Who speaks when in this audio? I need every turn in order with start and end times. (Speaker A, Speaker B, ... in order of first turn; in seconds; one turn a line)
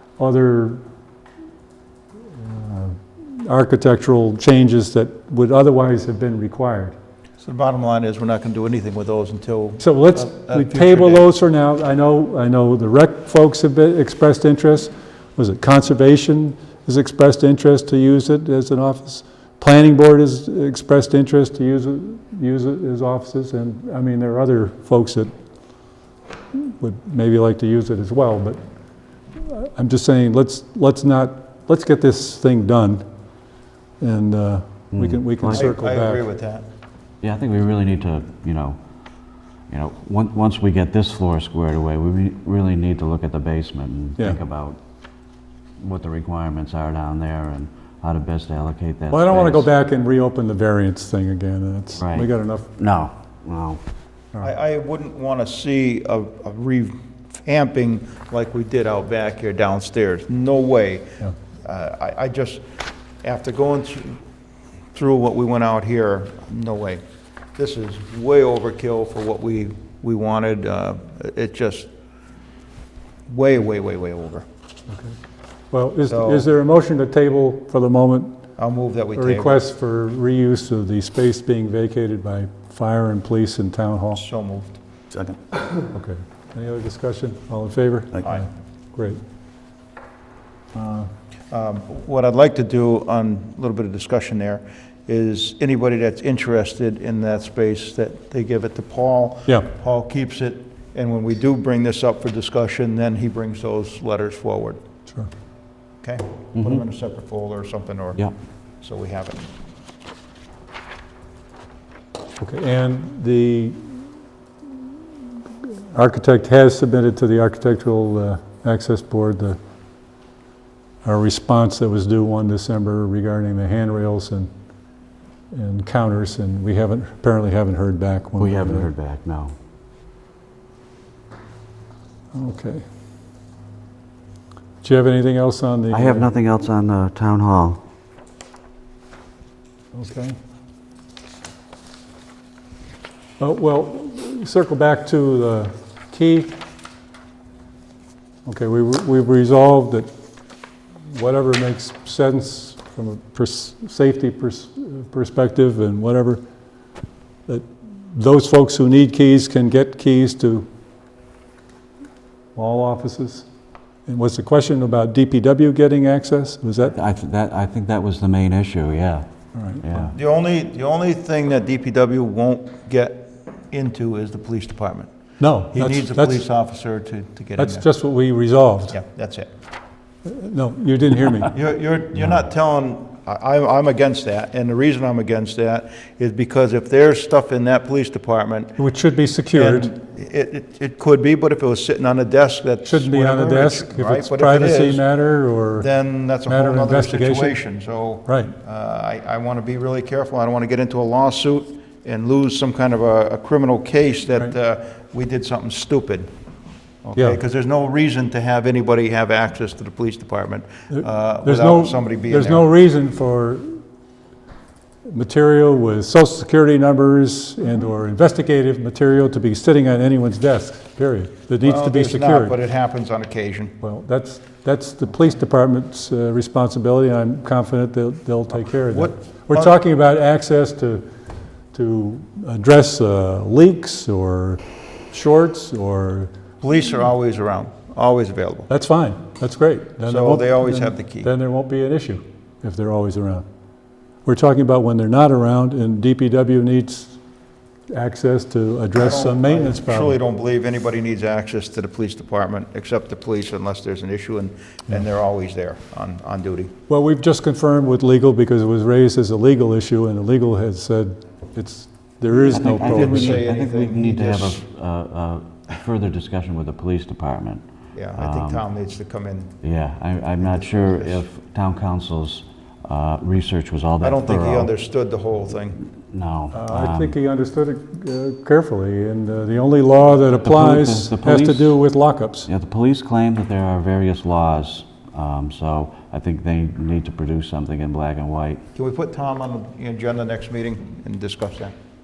Speaker A: 0.2-0.8
Speaker A: 2.4-7.0
Speaker B: 7.4-11.3
Speaker A: 9.8-25.3
Speaker A: 26.5-28.6
Speaker A: 29.4-33.0
Speaker A: 34.0-36.2
Speaker C: 34.9-35.6
Speaker B: 35.5-36.7
Speaker C: 37.2-38.8
Speaker C: 39.7-44.8
Speaker C: 45.8-49.7
Speaker A: 49.1-52.7
Speaker C: 52.0-53.8
Speaker B: 54.4-62.6
Speaker B: 63.2-64.2
Speaker B: 64.9-67.0
Speaker B: 67.6-71.9
Speaker B: 73.3-74.5
Speaker A: 74.9-75.2
Speaker A: 75.7-78.4
Speaker B: 76.1-76.5
Speaker B: 78.6-79.6
Speaker A: 79.2-84.2
Speaker B: 84.2-84.8
Speaker A: 85.9-89.2
Speaker B: 88.2-88.5
Speaker A: 90.8-91.1
Speaker B: 91.5-104.8
Speaker B: 106.0-108.2
Speaker C: 106.6-106.8
Speaker B: 108.8-109.5
Speaker A: 112.4-114.0
Speaker A: 115.9-119.6
Speaker A: 121.0-124.5
Speaker A: 125.5-128.9
Speaker C: 128.4-129.6
Speaker A: 132.3-132.8
Speaker A: 134.8-136.3
Speaker C: 135.9-137.8
Speaker A: 139.9-140.4
Speaker A: 143.4-146.6
Speaker A: 148.5-150.1
Speaker A: 151.1-156.4
Speaker A: 157.5-160.7
Speaker A: 162.6-163.5
Speaker A: 164.1-167.0
Speaker C: 166.9-169.3
Speaker A: 169.5-170.1
Speaker C: 169.8-170.2
Speaker B: 170.1-175.1
Speaker A: 175.4-176.4
Speaker B: 175.7-177.9
Speaker A: 177.6-179.0
Speaker B: 178.9-179.5
Speaker A: 180.2-181.6
Speaker B: 181.5-188.7
Speaker A: 188.8-189.9
Speaker B: 189.5-195.0
Speaker A: 192.8-195.9
Speaker B: 195.8-206.3
Speaker A: 196.4-197.6
Speaker A: 198.3-198.5
Speaker B: 207.0-212.7
Speaker A: 210.9-213.8
Speaker A: 215.1-222.5
Speaker B: 221.6-223.7
Speaker A: 223.8-231.1
Speaker B: 228.7-229.8
Speaker A: 231.7-236.3
Speaker B: 236.6-238.7
Speaker A: 238.7-243.5
Speaker B: 240.1-241.3
Speaker A: 244.2-247.2
Speaker A: 247.9-250.2
Speaker B: 248.9-256.7
Speaker A: 256.9-263.5
Speaker B: 262.5-264.6
Speaker C: 262.5-267.6
Speaker B: 267.9-269.6
Speaker C: 268.2-268.6
Speaker C: 269.6-274.7
Speaker B: 270.4-271.2
Speaker B: 274.0-275.8
Speaker C: 276.1-277.1
Speaker A: 276.5-282.5
Speaker C: 280.4-281.8
Speaker C: 282.5-288.6
Speaker B: 288.8-291.7